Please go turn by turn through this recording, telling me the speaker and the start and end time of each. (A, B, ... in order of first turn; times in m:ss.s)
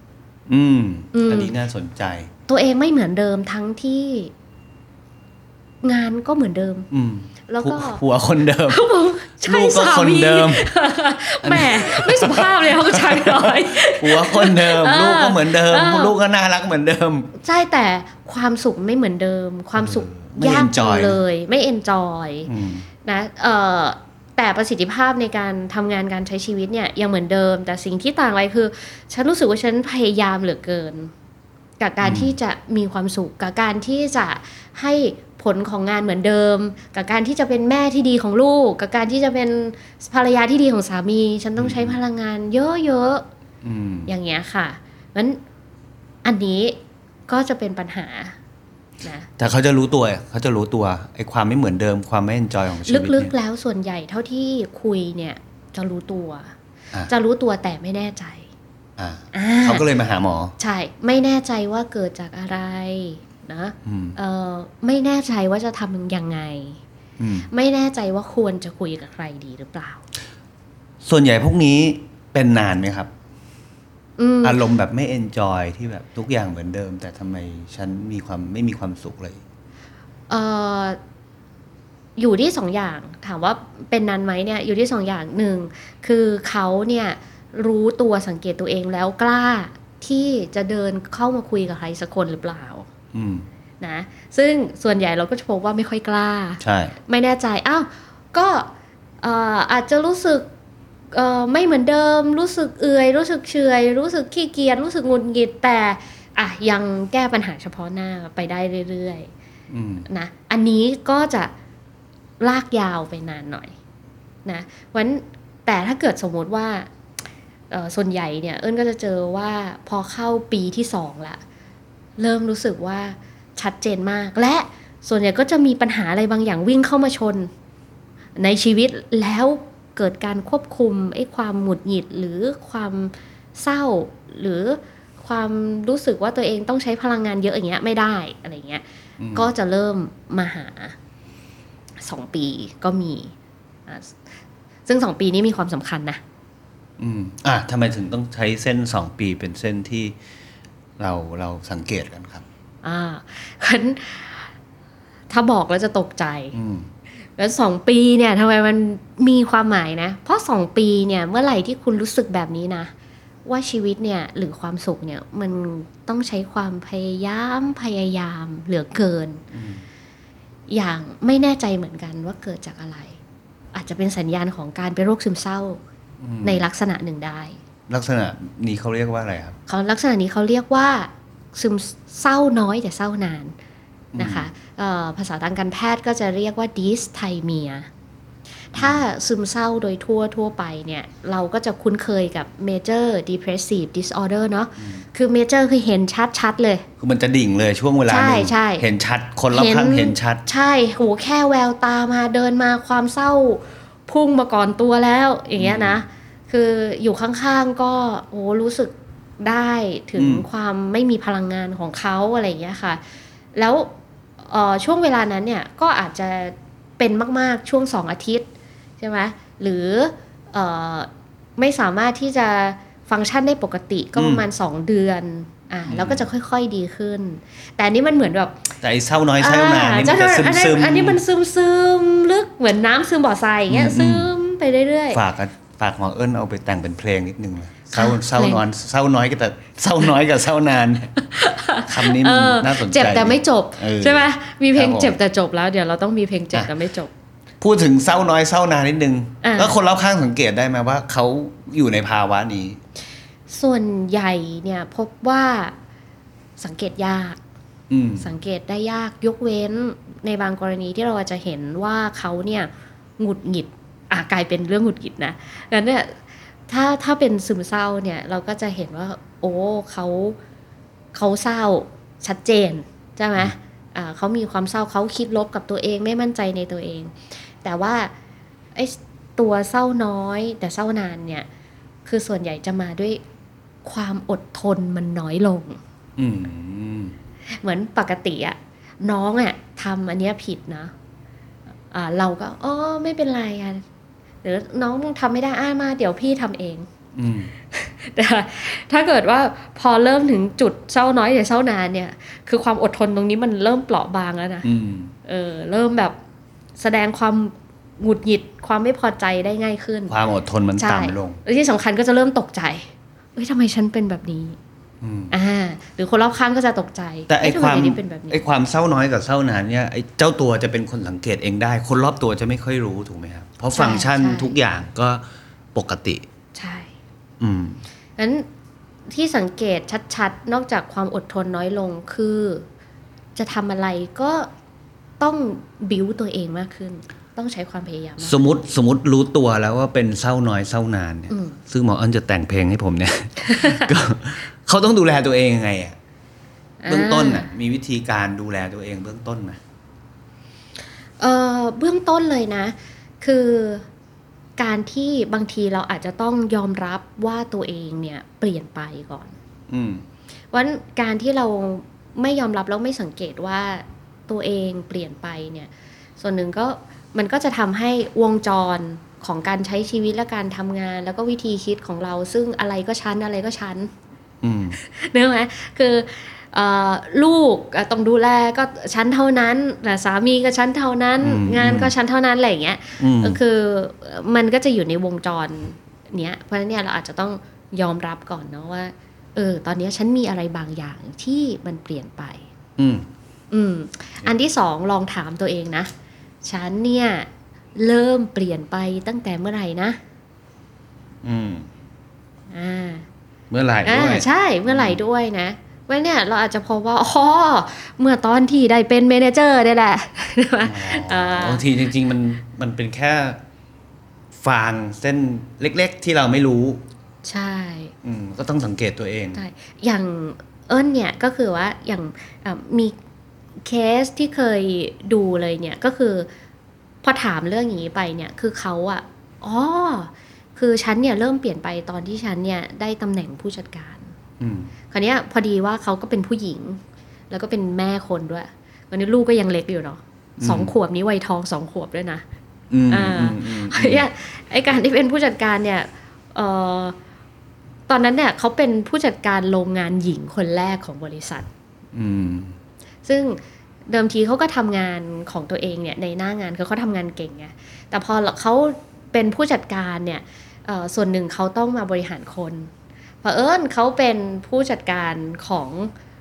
0:00.5-0:02.3 A
0:01.1-0:01.5 B
0:02.5-0:04.3 B
0:05.8-0:06.9 B
0:06.9-0:08.8 A
0:07.5-0:08.0 B
0:08.7-0:16.2 B
0:09.4-0:10.7 A
0:11.4-0:17.3 A
0:17.4-0:22.5 B
0:19.8-0:21.2 A
0:22.4-0:22.9 A
0:23.0-0:31.1 B
0:31.8-0:43.2 B
0:32.0-0:32.3 A
0:41.6-0:42.0 A
0:43.6-0:44.1 A
0:44.0-0:45.4 B
0:46.2-0:48.4 B
0:49.0-0:49.3 B
0:49.4-0:53.3 A
0:52.9-0:56.5 B
0:57.1-0:58.5 B
0:59.0-1:00.5 A
0:59.3-0:59.8 B
1:00.6-1:06.8 B
1:03.8-1:04.2 A
1:07.2-1:07.5 A
1:07.5-1:10.0 B
1:11.0-1:13.1 A
1:14.2-1:14.6 B
1:14.4-1:19.4 A
1:20.3-1:21.0 B
1:22.2-1:32.9 B
1:33.1-1:33.4 A
1:33.8-1:40.5 B
1:36.6-1:36.9 A
1:41.1-1:49.3 B
1:49.7-1:50.1 A
1:50.1-1:51.5 B
1:52.4-1:53.7 B
1:54.4-1:56.9 B
1:57.7-2:01.4 B
2:02.2-2:07.5 B
2:08.4-2:18.8 B
2:19.2-2:19.5 A
2:19.3-2:21.0 B
2:22.0-2:23.3 B
2:23.9-2:24.2 B
2:24.9-2:26.2 B
2:27.0-2:30.1 A
2:31.0-2:32.4 A
2:32.8-2:34.5 B
2:35.3-2:36.6 B
2:36.5-2:36.9 A
2:37.4-2:42.9 B
2:43.4-2:49.4 B
2:49.5-2:49.8 A
2:50.7-2:53.2 B
2:53.7-2:55.8 B
2:56.2-2:56.6 A
2:56.4-2:57.6 B
2:57.9-2:59.6 A
2:59.7-3:03.5 B
3:04.1-3:04.5 A
3:04.2-3:07.9 B
3:08.7-3:16.8 B
3:08.7-3:09.0 A
3:17.0-3:20.4 A
3:18.1-3:18.8 B
3:19.5-3:33.0 B
3:25.6-3:26.0 A
3:30.2-3:30.4 A
3:33.5-3:33.9 B
3:34.4-3:38.5 B
3:39.0-3:48.7 B
3:44.1-3:44.4 A
3:45.9-3:46.3 A
3:48.8-3:51.2 A
3:49.4-3:55.2 B
3:53.7-3:54.3 A
3:55.1-4:01.1 A
3:57.9-3:58.6 B
4:01.2-4:07.1 B
4:01.8-4:05.2 A
4:07.6-4:12.8 A
4:09.4-4:09.8 B
4:13.5-4:15.7 B
4:16.6-4:17.4 B
4:17.9-4:18.3 A
4:18.2-4:30.4 B
4:31.1-4:38.1 B
4:38.7-4:41.5 B
4:42.0-4:43.2 B
4:43.8-4:45.8 B
4:46.2-4:47.2 A
4:47.6-4:50.9 B
4:51.9-4:53.8 B
4:54.4-4:56.9 B
4:57.1-4:57.5 A
4:57.7-5:04.7 B
5:04.6-5:05.1 A
5:05.2-5:06.1 B
5:06.8-5:10.1 B
5:10.1-5:11.4 A
5:10.8-5:14.6 B
5:15.0-5:15.3 A
5:15.3-5:18.4 B
5:17.3-5:26.2 A
5:23.7-5:24.5 B
5:26.5-5:26.9 B
5:27.4-5:27.8 A
5:28.2-5:28.4 B
5:29.1-5:32.6 B
5:33.3-5:34.5 B
5:35.2-5:38.4 B
5:38.2-5:46.0 A
5:41.3-5:41.6 B
5:43.4-5:43.9 B
5:46.8-5:47.5 B
5:46.9-5:49.6 A
5:51.2-5:53.8 B
5:54.6-5:59.3 B
5:59.7-6:00.0 A
6:00.5-6:13.9 B
6:14.4-6:14.8 A
6:14.8-6:32.4 B
6:21.2-6:21.9 A
6:23.0-6:23.4 A
6:32.8-6:33.1 A
6:33.5-6:35.9 B
6:36.4-6:40.0 B
6:41.2-6:41.7 A
6:42.5-6:43.0 B
6:43.5-6:45.0 A
6:43.8-6:51.6 B
6:50.6-6:53.4 A
6:54.4-6:56.8 A
6:57.2-6:57.9 B
6:58.0-6:59.4 A
6:59.3-7:02.9 B
7:03.6-7:06.3 B
7:07.0-7:14.1 B
7:14.4-7:14.7 A
7:14.9-7:22.2 B
7:20.4-7:20.7 A
7:22.7-7:24.0 A
7:22.9-7:26.9 B
7:27.9-7:31.5 B
7:31.9-7:32.5 A
7:33.0-7:42.7 B
7:43.2-7:45.9 B